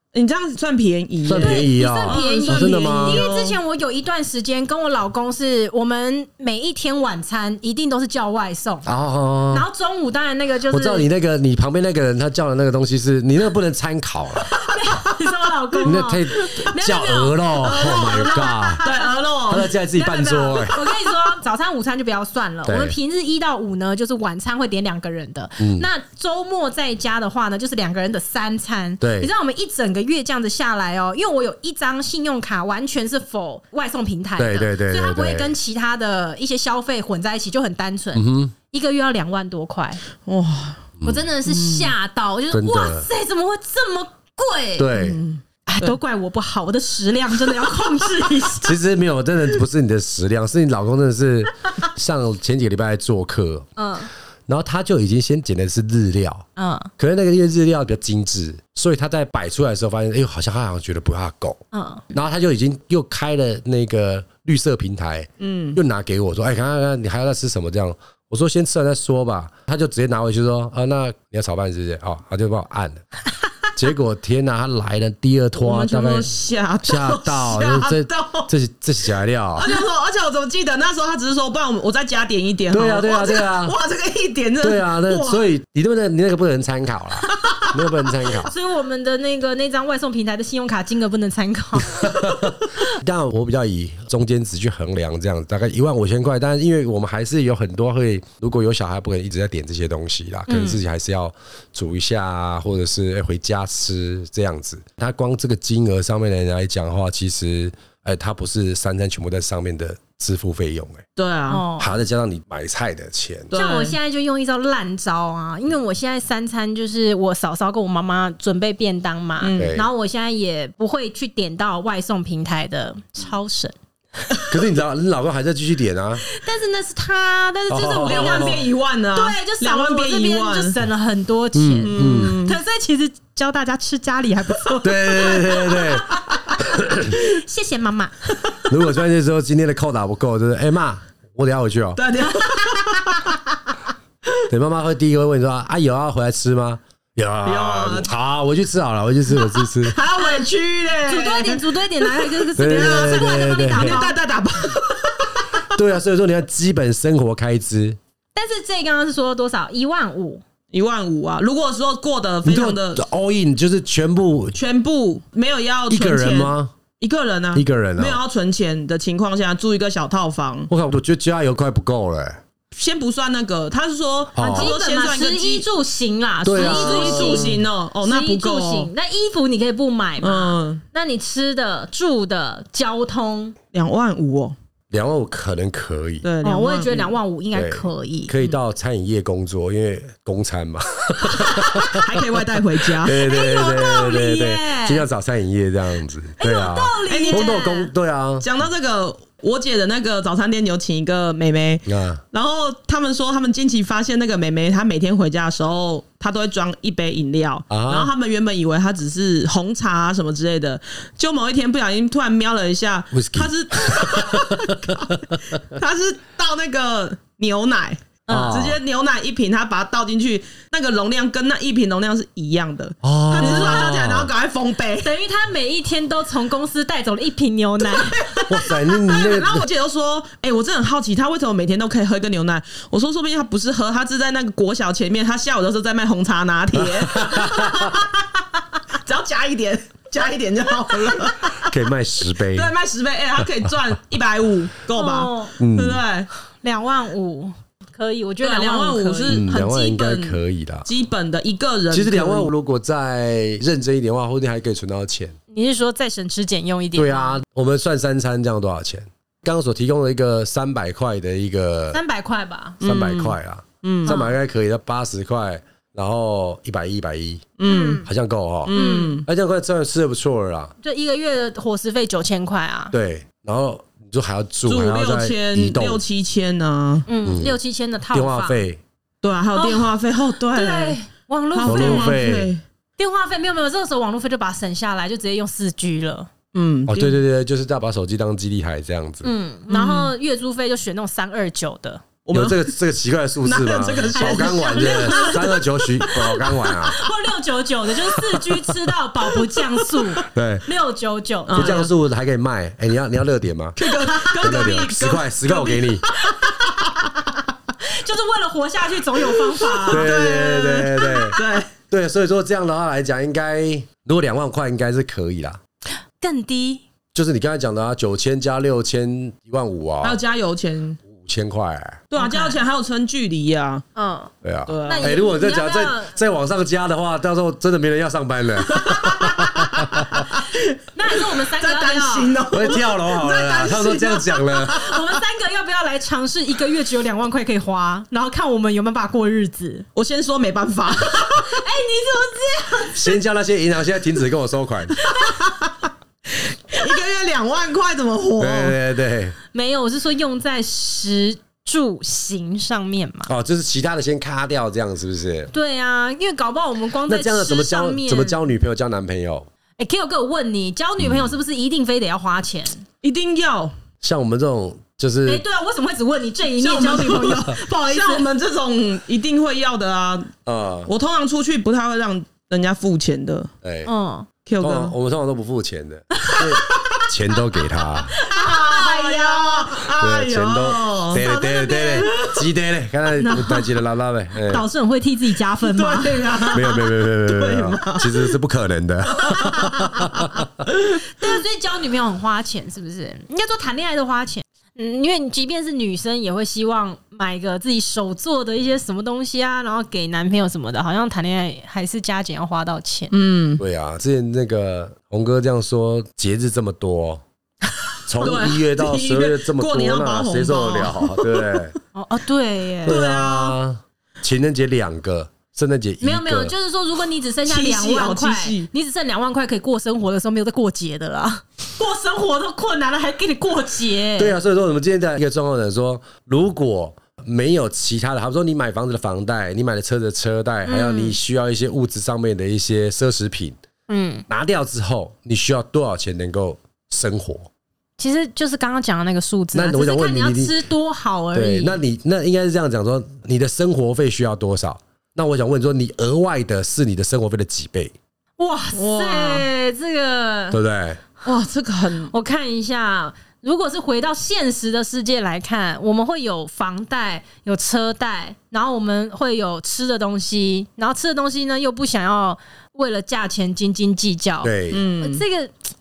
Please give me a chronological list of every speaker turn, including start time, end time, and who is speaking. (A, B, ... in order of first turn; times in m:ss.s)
0:00.1-0:03.6 A
0:01.2-0:03.3 B
0:01.3-0:08.9 C
0:08.8-0:09.6 B
0:09.5-0:11.1 C
0:10.7-0:14.5 B
0:14.6-0:19.1 C
0:15.8-0:18.8 B
0:17.6-0:20.7 A
0:19.5-0:20.8 B
0:20.0-0:40.0 C
0:22.6-0:22.9 B
0:25.6-0:25.8 B
0:29.0-0:29.3 B
0:34.4-0:35.5 B
0:38.1-0:38.5 B
0:40.2-0:40.9 A
0:41.0-0:44.9 C
0:41.5-0:41.9 A
0:42.5-0:43.1 B
0:44.8-0:45.2 B
0:44.9-0:45.9 A
0:45.7-0:48.8 C
0:48.6-0:53.7 B
0:53.8-0:54.1 C
0:54.5-0:56.4 B
0:56.6-0:56.9 C
0:57.0-1:01.6 B
1:01.7-1:02.0 C
1:02.1-1:13.0 B
1:05.4-1:05.8 A
1:13.7-1:16.3 B
1:15.6-1:18.5 A
1:16.8-1:19.7 B
1:19.5-1:25.4 A
1:22.7-1:23.7 B
1:24.6-1:28.5 B
1:27.3-1:27.8 A
1:28.4-1:32.3 C
1:31.8-1:51.0 B
1:40.5-1:40.8 C
1:51.2-1:51.6 A
1:51.5-1:51.9 C
1:51.8-1:53.5 B
1:53.5-1:54.0 A
1:53.5-2:03.7 C
1:59.4-1:59.7 A
1:59.6-1:59.9 B
2:04.5-2:06.2 B
2:06.2-2:16.0 C
2:07.7-2:08.6 B
2:08.0-2:10.8 A
2:11.5-2:12.4 B
2:11.8-2:12.6 A
2:14.8-2:17.2 B
2:17.0-2:18.1 C
2:18.7-2:22.0 B
2:22.0-2:23.4 A
2:22.3-2:23.2 C
2:24.5-2:30.0 B
2:27.4-2:28.1 A
2:29.3-2:35.6 A
2:31.0-2:34.2 C
2:32.6-2:34.0 B
2:35.7-2:38.0 B
2:38.3-2:40.4 C
2:40.7-2:43.0 A
2:42.4-2:44.6 B
2:44.5-2:50.7 A
2:45.9-2:46.7 B
2:47.5-2:48.2 B
2:50.7-2:52.4 B
2:52.7-2:55.7 A
2:54.3-2:54.7 B
2:54.6-3:03.6 C
2:56.4-2:57.6 B
2:56.5-2:58.9 A
3:00.2-3:00.8 A
3:03.7-3:04.5 A
3:04.9-3:06.2 B
3:06.2-3:07.1 A
3:06.4-3:08.3 C
3:07.5-3:12.2 B
3:11.4-3:13.2 A
3:13.0-3:18.4 B
3:13.1-3:15.0 C
3:16.4-3:17.9 C
3:17.1-3:17.6 A
3:18.4-3:45.1 A
3:21.8-3:22.2 B
3:27.7-3:28.1 B
3:33.1-3:35.4 B
3:38.3-3:38.6 C
3:38.3-3:38.8 B
3:43.0-3:44.3 B
3:43.3-3:43.9 C
3:45.0-3:48.5 C
3:48.0-3:48.4 A
3:48.5-3:49.7 B
3:49.0-3:58.3 A
3:56.7-3:58.0 B
3:58.9-4:01.7 A
4:01.6-4:02.7 B
4:02.5-4:06.3 A
4:04.9-4:05.5 C
4:05.6-4:06.0 B
4:06.6-4:09.4 C
4:08.4-4:12.5 A
4:09.3-4:10.9 B
4:11.9-4:15.4 B
4:15.5-4:17.4 C
4:16.9-4:22.0 B
4:21.9-4:22.8 C
4:22.8-4:24.2 A
4:22.8-4:27.5 B
4:24.0-4:24.3 C
4:27.6-4:28.0 A
4:27.6-4:28.1 C
4:28.0-4:30.7 B
4:28.6-4:29.3 A
4:28.7-4:29.2 C
4:30.8-4:32.9 C
4:32.9-4:36.0 B
4:34.6-4:37.1 A
4:37.1-4:38.6 C
4:37.2-4:37.6 B
4:38.1-4:38.8 B
4:39.2-4:41.0 A
4:39.5-4:39.9 C
4:40.4-4:42.2 C
4:41.5-4:42.6 A
4:41.6-4:42.5 B
4:43.0-4:46.3 C
4:46.5-4:47.2 A
4:46.9-4:49.3 B
4:49.2-4:52.0 C
4:49.7-4:50.1 A
4:52.2-4:52.7 A
4:52.3-4:57.0 B
4:53.4-4:55.6 A
4:54.1-5:01.8 C
5:00.3-5:00.6 B
5:01.5-5:01.9 A
5:01.5-5:06.0 B
5:03.8-5:06.4 A
5:03.9-5:04.7 C
5:06.2-5:10.1 C
5:09.4-5:11.7 A
5:09.9-5:11.4 B
5:11.0-5:11.4 C
5:11.9-5:15.6 B
5:16.2-5:16.8 C
5:17.1-5:20.2 B
5:20.0-5:21.0 A
5:21.0-5:22.0 B
5:22.1-5:23.8 A
5:22.2-5:22.6 C
5:23.9-5:24.3 C
5:24.4-5:30.2 B
5:24.7-5:25.2 A
5:24.8-5:26.2 C
5:28.7-5:33.8 A
5:30.9-5:32.4 C
5:32.5-5:35.0 B
5:33.2-5:39.8 C
5:39.9-5:41.6 A
5:41.3-5:43.2 C
5:42.9-5:45.0 B
5:45.0-5:45.5 C
5:45.2-5:45.7 A
5:46.7-5:48.8 A
5:48.4-5:49.4 B
5:49.5-5:53.3 C
5:53.3-5:55.5 B
5:55.5-5:58.4 C
5:57.0-5:59.5 B
5:59.8-6:02.8 C
6:01.0-6:01.3 B
6:03.0-6:03.7 A
6:04.0-6:05.4 B
6:05.2-6:08.3 C
6:06.6-6:10.3 A
6:10.4-6:10.9 B
6:10.9-6:13.5 A
6:13.6-6:13.9 B
6:13.8-6:14.3 C
6:14.4-6:14.9 A
6:14.6-6:18.1 B
6:16.4-6:17.0 A
6:18.1-6:19.7 C
6:18.2-6:21.3 A
6:19.8-6:24.6 B
6:21.2-6:22.1 C
6:21.9-6:22.4 A
6:23.2-6:23.7 C
6:24.4-6:26.6 C
6:25.7-6:28.3 A
6:26.5-6:30.4 B
6:29.1-6:30.1 A
6:29.4-6:29.9 C
6:31.0-6:43.1 C
6:43.1-6:43.6 A
6:43.6-6:47.2 B
6:48.1-6:51.8 B
6:48.2-6:51.7 A
6:51.9-6:53.0 C
6:52.8-6:56.5 B
6:52.8-6:53.6 A
6:56.0-7:04.4 C
6:57.5-6:58.7 A
7:04.2-7:13.6 B
7:10.6-7:11.2 C
7:13.9-7:14.2 C
7:14.3-7:17.5 B
7:18.0-7:21.8 C
7:19.5-7:20.5 B
7:21.3-7:27.9 B
7:28.4-7:30.6 C
7:28.7-7:29.4 A
7:30.5-7:31.0 B
7:31.2-7:32.1 A
7:32.1-7:45.5 C
7:44.4-7:44.8 B
7:44.7-7:45.2 A